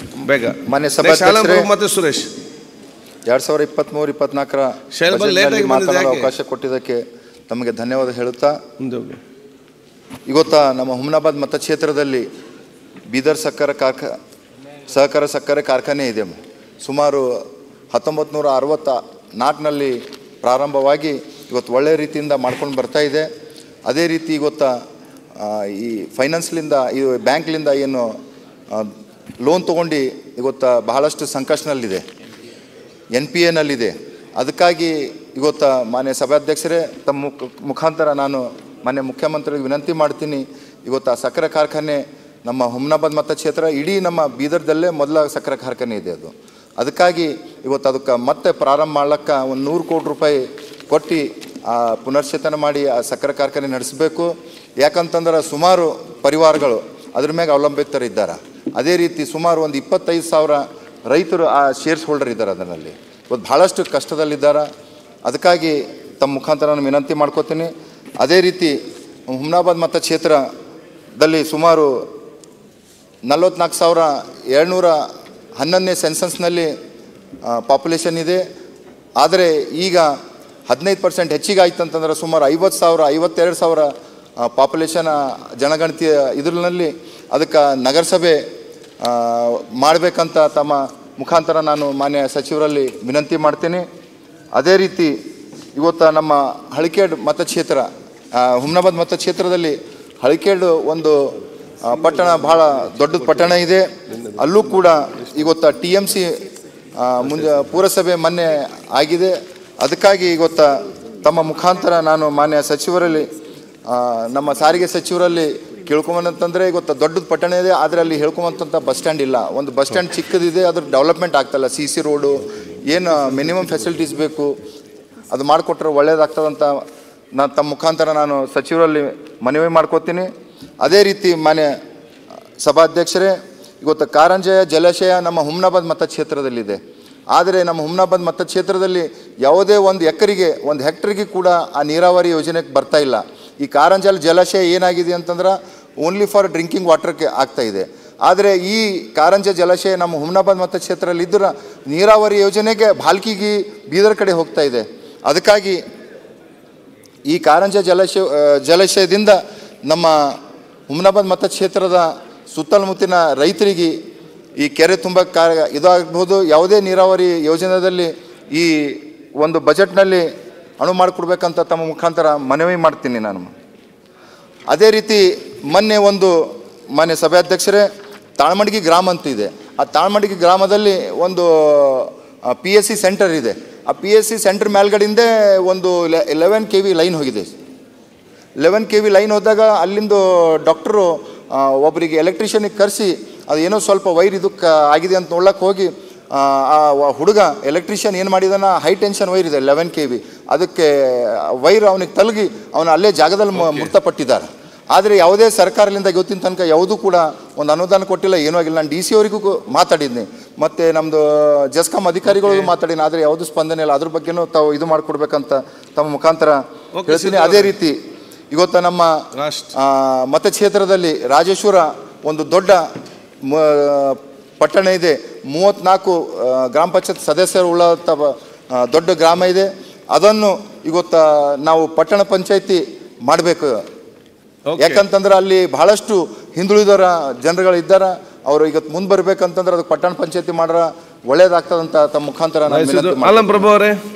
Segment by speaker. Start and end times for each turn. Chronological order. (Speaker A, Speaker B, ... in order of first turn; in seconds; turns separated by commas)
Speaker A: 0.2-2.3, Speaker B: 0.7-1.7, Speaker B: 3.3-8.6, Speaker A: 5.0-6.3, Speaker A: 8.8-9.2, Speaker B: 10.3-12.2, Speaker B: 13.1-14.1, Speaker B: 14.9-23.3, Speaker B: 23.9-24.8, Speaker B: 25.4-28.1, Speaker B: 28.7-32.0, Speaker B: 33.1-64.7, Speaker B: 65.3-68.8, Speaker B: 69.3-70.4, Speaker B: 71.2-72.0, Speaker B: 73.3-75.0, Speaker B: 75.6-76.7, Speaker B: 77.4-78.4, Speaker B: 79.2-80.1, Speaker B: 80.7-88.4, Speaker B: 89.0-93.8, Speaker B: 94.6-95.1, Speaker B: 95.8-101.3, Speaker B: 101.8-106.4, Speaker A: 102.0-103.5, Speaker A: 104.1-104.5, Speaker B: 107.0-113.3, Speaker A: 107.2-107.6, Speaker B: 113.9-124.5, Speaker B: 125.3-126.7, Speaker B: 127.3-130.3, Speaker B: 130.8-131.7, Speaker B: 132.6-136.8, Speaker B: 137.3-155.8, Speaker B: 157.3-160.4, Speaker B: 160.9-163.9, Speaker B: 164.6-170.3, Speaker B: 170.8-173.5, Speaker B: 174.7-177.9, Speaker B: 178.4-187.5, Speaker B: 188.6-218.0, Speaker A: 203.6-203.9, Speaker A: 212.4-212.7, Speaker A: 217.0-217.7, Speaker B: 218.5-222.8, Speaker A: 219.3-219.7, Speaker B: 223.4-233.8, Speaker A: 234.7-235.0, Speaker B: 234.8-243.7, Speaker A: 242.7-244.0